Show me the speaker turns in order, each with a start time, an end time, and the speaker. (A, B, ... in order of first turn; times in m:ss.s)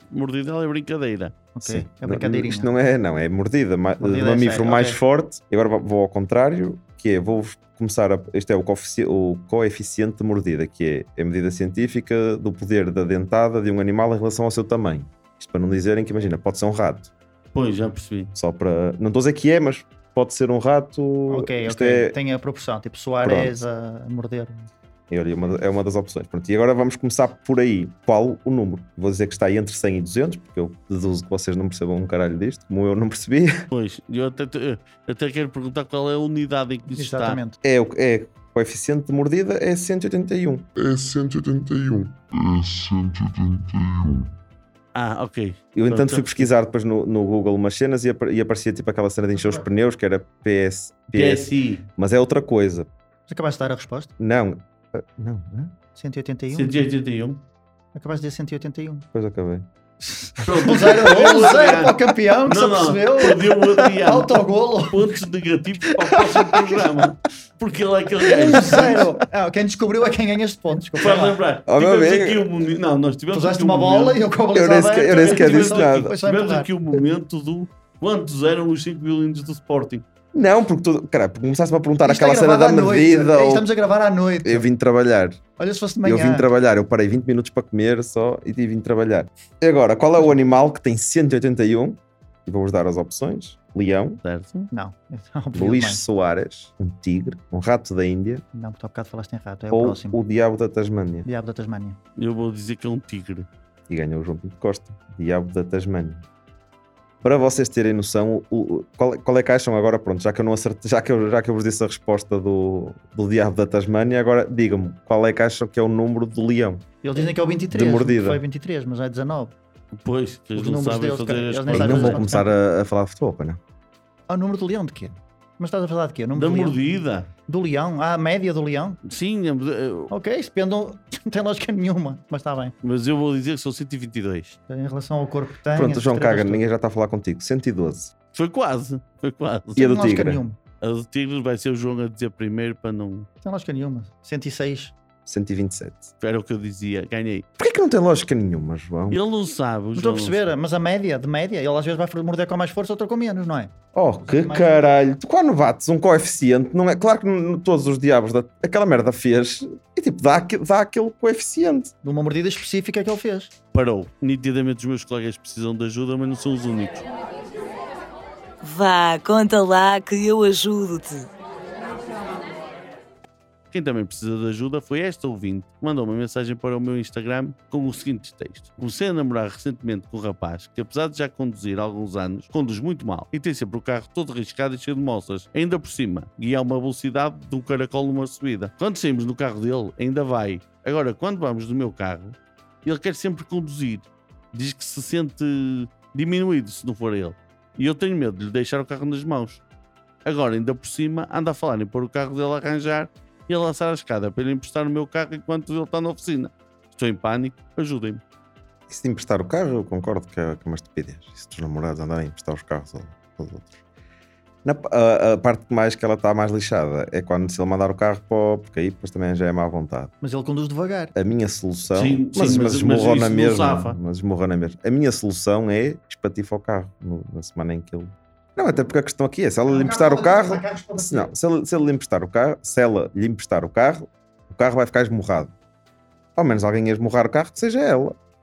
0:00.1-0:01.4 A
0:01.6-0:02.7 B
0:01.6-0:17.1 C
0:04.0-0:05.0 B
0:17.5-0:18.3 A
0:18.4-0:22.2 C
0:21.3-0:24.7 B
0:23.2-0:23.6 C
0:25.1-0:33.5 C
0:33.7-0:37.4 A
0:37.0-0:37.6 B
0:37.6-0:40.7 C
0:40.8-0:44.3 D
0:45.0-0:46.5 A
0:45.8-0:52.9 C
0:51.1-0:51.9 A
0:53.3-0:54.1 B
0:54.2-0:55.7 C
0:56.0-0:56.9 B
0:56.5-0:57.4 A
0:57.9-0:59.1 B
0:59.1-0:59.6 C
1:00.0-1:05.1 B
1:00.4-1:09.0 A
1:06.3-1:06.8 B
1:08.4-1:11.4 B
1:11.0-1:14.2 A
1:11.7-1:12.5 C
1:13.3-1:16.7 B
1:14.6-1:16.2 C
1:15.2-1:20.0 A
1:20.3-1:23.7 C
1:22.0-1:24.7 B
1:24.4-1:25.4 C
1:25.6-1:26.5 B
1:26.0-1:34.2 C
1:34.2-1:34.7 A
1:34.7-1:36.0 B
1:35.5-1:38.4 C
1:38.5-1:40.2 B
1:39.7-1:41.3 C
1:41.2-1:42.0 B
1:42.2-1:43.5 A
1:43.9-1:46.2 C
1:47.2-1:56.8 C
1:57.0-1:59.6 B
1:57.7-1:58.4 C
2:00.0-2:02.3 A
2:00.6-2:02.5 B
2:01.7-2:03.6 C
2:04.3-2:06.8 B
2:06.4-2:07.3 A
2:07.5-2:09.0 B
2:09.1-2:10.1 A
2:10.1-2:12.7 B
2:12.8-2:14.6 A
2:14.7-2:16.6 B
2:15.7-2:18.1 C
2:18.3-2:20.0 A
2:19.8-2:20.4 C
2:19.8-2:20.6 B
2:20.8-2:23.3 A
2:23.4-2:24.9 B
2:25.3-2:26.1 C
2:26.2-2:27.4 A
2:27.6-2:29.2 C
2:29.1-2:30.5 A
2:30.0-2:35.0 B
2:33.9-2:41.9 C
2:42.0-2:43.5 B
2:43.7-2:47.0 A
2:48.6-2:51.3 E
2:53.7-3:19.6 A
3:20.2-3:28.2 A
3:28.9-3:33.7 C
3:34.6-3:40.1 C
3:40.2-3:41.1 B
3:41.2-3:55.5 C
3:41.9-3:44.0 A
3:49.7-3:51.3 B
3:56.4-3:58.2 C